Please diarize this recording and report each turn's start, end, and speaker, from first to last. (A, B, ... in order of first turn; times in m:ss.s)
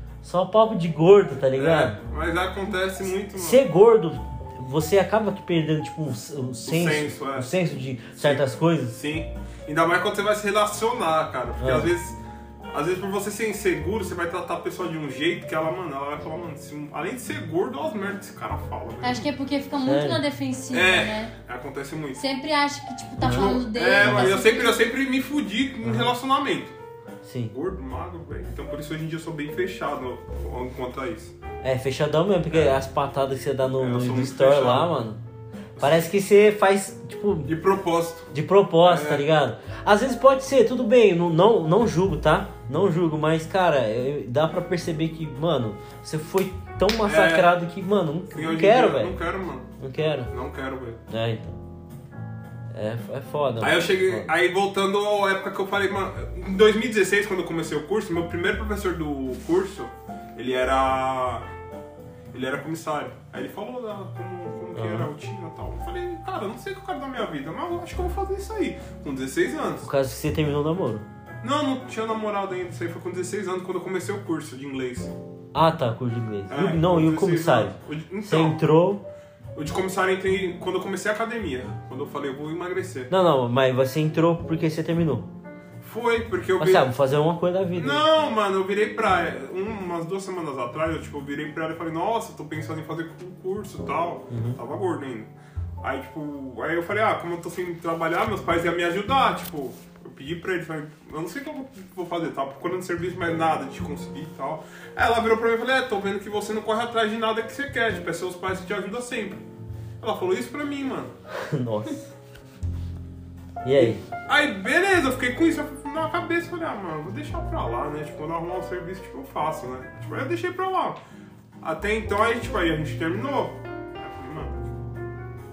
0:00.2-0:02.0 A
0:01.6-0:03.6 B
0:03.3-0:09.0 A
0:06.6-0:07.6 B
0:08.2-0:12.2 B
0:11.6-0:11.9 A
0:12.7-0:19.3 B
0:19.0-0:21.3 C
0:19.8-0:20.2 A
0:20.7-0:22.2 B
0:22.2-0:24.9 C
0:23.2-0:24.3 A
0:23.2-0:26.7 B
0:25.8-0:26.1 A
0:27.2-0:27.5 A
0:27.5-0:31.4 B
0:31.6-0:35.2 A
0:32.5-0:32.8 B
0:33.8-0:34.9 B
0:35.8-0:36.1 B
0:35.8-0:37.5 A
0:37.5-0:38.3 B
0:38.3-0:49.2 A
0:38.8-0:39.3 B
0:47.0-0:47.6 B
0:48.3-0:49.7 B
0:49.8-0:50.3 A
0:50.3-0:51.0 B
0:51.1-0:51.6 A
0:52.7-0:54.3 A
0:53.6-1:01.5 B
1:02.3-1:09.9 B
1:04.8-1:05.1 A
1:09.8-1:11.1 A
1:11.4-1:15.1 B
1:15.5-1:19.0 A
1:16.5-1:18.6 B
1:19.6-1:23.1 B
1:23.1-1:25.3 A
1:25.8-1:26.9 B
1:26.6-1:28.1 A
1:27.8-1:49.4 B
1:34.3-1:34.6 A
1:50.0-1:51.1 B
1:51.3-1:52.1 A
1:53.6-1:54.0 A
1:53.8-2:01.0 B
2:01.6-2:04.8 B